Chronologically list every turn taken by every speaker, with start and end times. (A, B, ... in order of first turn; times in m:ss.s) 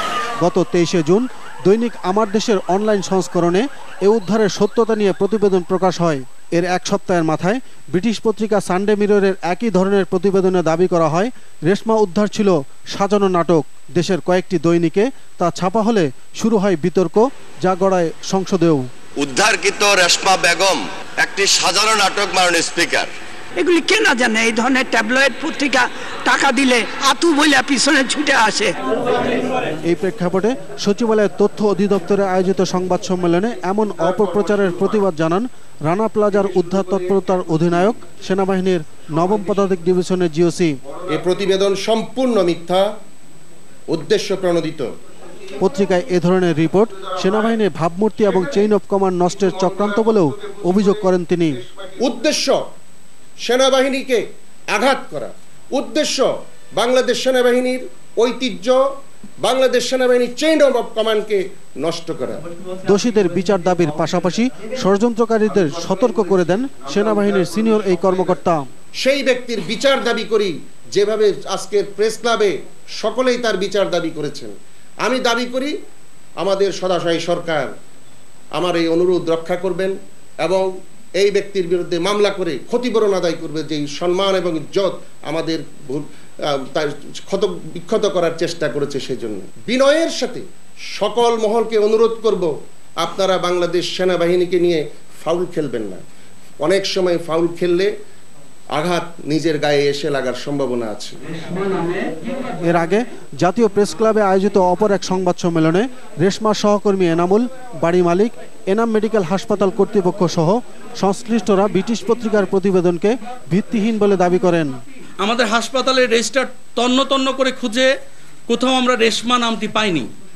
0:00.4-0:18.9 A
0:19.2-0:23.1 B
0:23.6-0:28.7 C
0:29.9-0:40.8 A
0:41.1-0:42.9 D
0:43.9-0:44.9 D
0:45.6-0:51.6 A
0:52.0-0:52.7 D
0:53.4-0:58.8 D
0:59.4-1:02.4 D
1:02.8-1:08.7 A
1:09.0-1:15.7 D
1:16.4-1:17.7 D
1:18.6-1:20.7 D
1:21.2-1:30.4 D
1:30.9-1:36.0 D
1:36.6-1:37.9 D
1:38.7-1:41.2 D
1:42.6-1:54.7 A
1:55.2-1:57.9 E
1:58.5-2:00.1 E